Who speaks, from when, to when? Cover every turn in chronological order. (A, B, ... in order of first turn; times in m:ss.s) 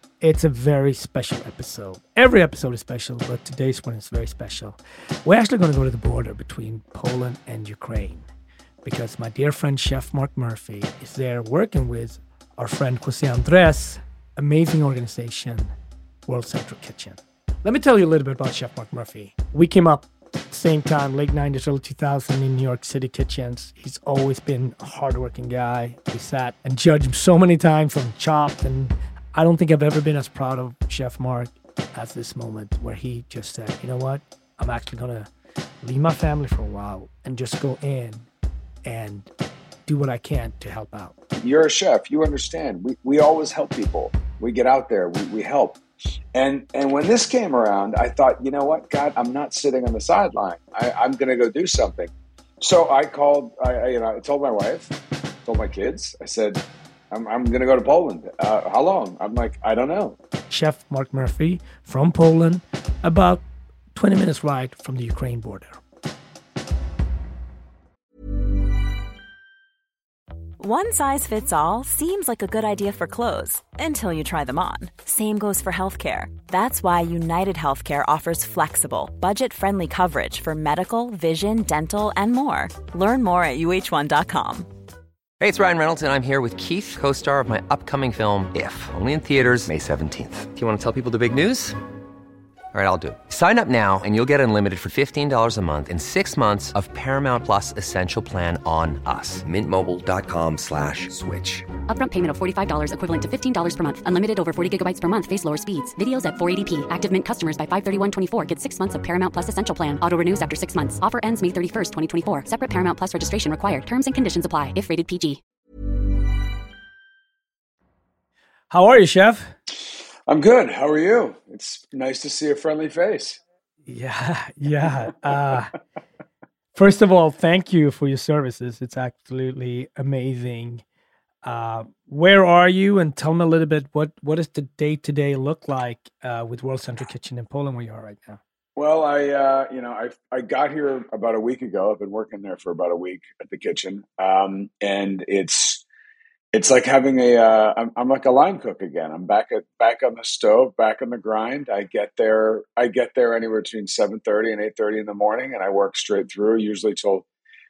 0:00.2-0:08.3 A
0:08.8-0:15.7 A
0:16.3-0:35.3 A
0:35.8-0:38.3 A
0:38.8-0:39.3 A
0:39.9-0:41.2 A
0:41.4-0:45.8 B
0:46.3-1:00.2 B
1:00.5-1:05.8 A
1:10.6-1:24.7 C
1:25.4-1:31.8 D
1:32.7-1:41.7 D
1:41.9-1:55.4 E
1:58.7-1:59.5 A
2:00.3-2:03.4 B
2:03.9-2:05.7 A
2:06.8-2:10.8 A
2:11.4-2:18.4 A
2:18.8-2:25.8 B
2:26.5-2:37.2 B